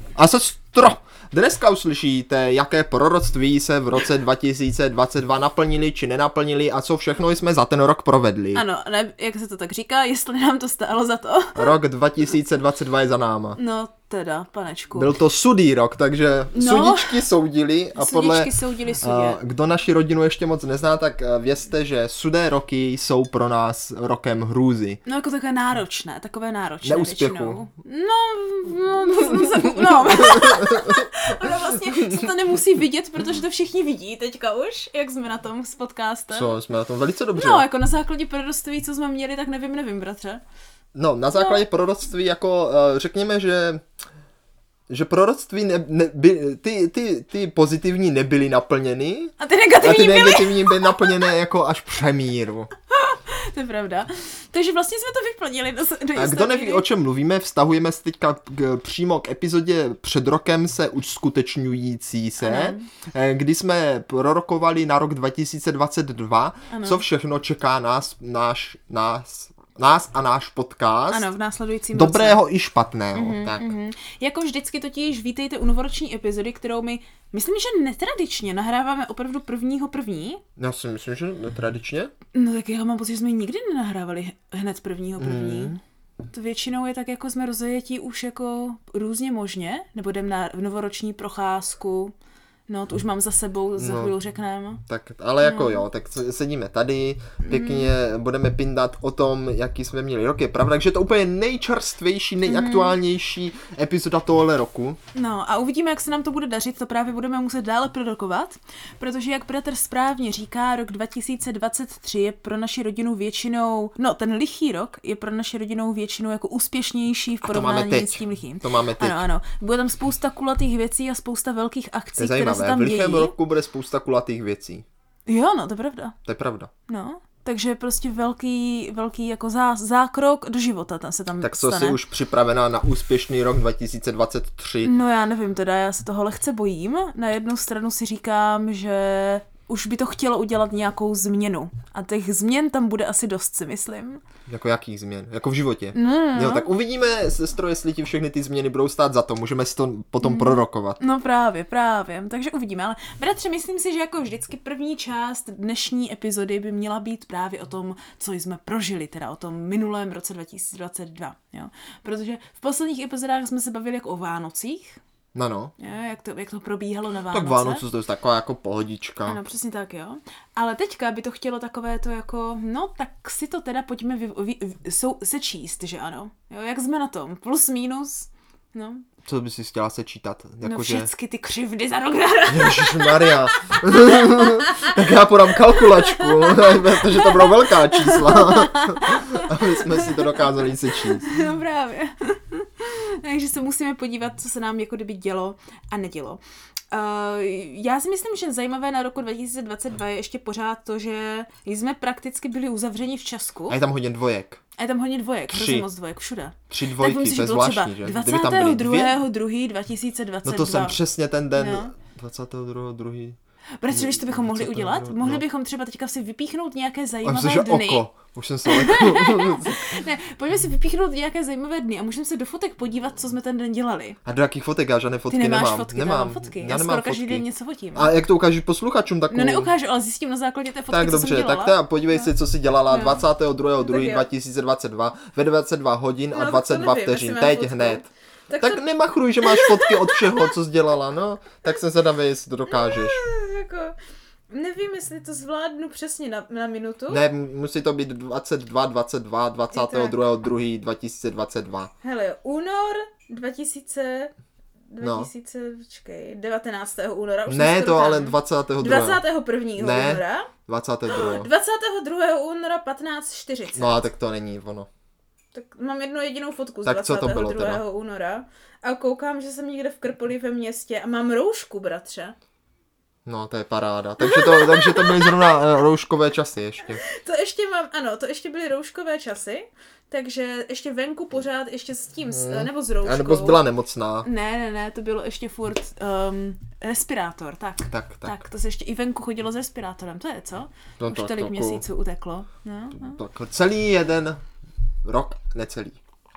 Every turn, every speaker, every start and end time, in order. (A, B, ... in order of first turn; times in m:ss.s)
0:00.2-0:08.6 A
0:08.5-0:11.8 B
0:11.6-0:13.6 A
0:13.6-0:15.2 B
0:15.0-0:25.0 A
0:16.5-0:17.3 B
0:18.0-0:19.4 B
0:25.0-0:36.5 B
0:26.8-0:27.6 A
0:29.9-0:32.3 A
0:36.3-0:37.7 A
0:37.4-0:40.4 B
0:41.0-0:43.8 A
0:41.3-0:41.6 B
0:44.9-0:52.7 A
0:49.4-0:51.2 B
0:52.9-0:56.8 B
0:56.2-1:11.3 A
1:02.4-1:02.8 B
1:06.7-1:07.0 B
1:11.1-1:12.4 B
1:11.9-1:13.7 A
1:13.1-1:20.4 B
1:20.6-1:22.1 A
1:22.3-1:25.7 B
1:25.2-1:25.8 A
1:26.3-1:32.1 B
1:32.7-1:34.8 B
1:33.8-1:34.2 A
1:34.9-1:45.0 A
1:35.4-1:35.8 B
1:37.4-1:37.9 B
1:42.4-1:43.0 B
1:45.1-2:03.3 B
1:57.4-1:59.2 A
2:02.2-2:04.8 A
2:05.3-2:06.2 B
2:06.2-2:06.7 A
2:06.9-2:12.0 B
2:11.4-2:14.9 A
2:14.8-2:24.2 B
2:24.5-2:31.0 A
2:25.9-2:26.7 B
2:30.2-2:45.0 B
2:45.4-2:45.7 A
2:45.8-2:47.8 B
2:47.3-2:49.4 A
2:49.3-2:59.0 B
2:59.2-3:01.1 A
3:00.6-3:05.0 B
3:02.5-3:11.3 A
3:05.5-3:23.8 B
3:23.7-3:24.6 A
3:24.8-3:31.0 B
3:25.5-3:25.9 A
3:26.7-3:29.2 A
3:30.4-3:33.4 A
3:31.5-3:31.9 B
3:33.8-3:38.0 B
3:33.9-3:35.4 A
3:37.2-3:39.9 A
3:38.7-3:44.2 B
3:44.2-3:47.4 A
3:45.3-3:48.1 B
3:48.0-3:49.7 A
3:49.3-3:52.3 B
3:50.9-3:58.1 A
3:52.9-3:53.2 B
3:53.8-3:54.3 B
3:56.3-3:58.8 B
3:58.6-4:03.2 A
3:59.4-4:00.5 B
4:02.7-4:04.0 B
4:04.5-4:07.2 B
4:07.1-4:11.9 A
4:09.7-4:10.2 B
4:12.0-4:14.3 B
4:14.9-4:20.5 B
4:15.0-4:15.3 A
4:17.5-4:19.2 A
4:19.8-4:21.5 A
4:21.1-4:24.0 B
4:23.8-4:24.9 A
4:25.5-4:32.4 B
4:26.8-4:27.8 A
4:33.3-4:37.0 A
4:34.2-4:35.6 B
4:37.0-4:43.6 B
4:42.3-4:44.3 A
4:44.2-4:53.2 B
4:47.9-4:48.4 A
4:51.0-4:51.8 A
4:52.9-4:54.4 A
4:55.0-4:56.0 A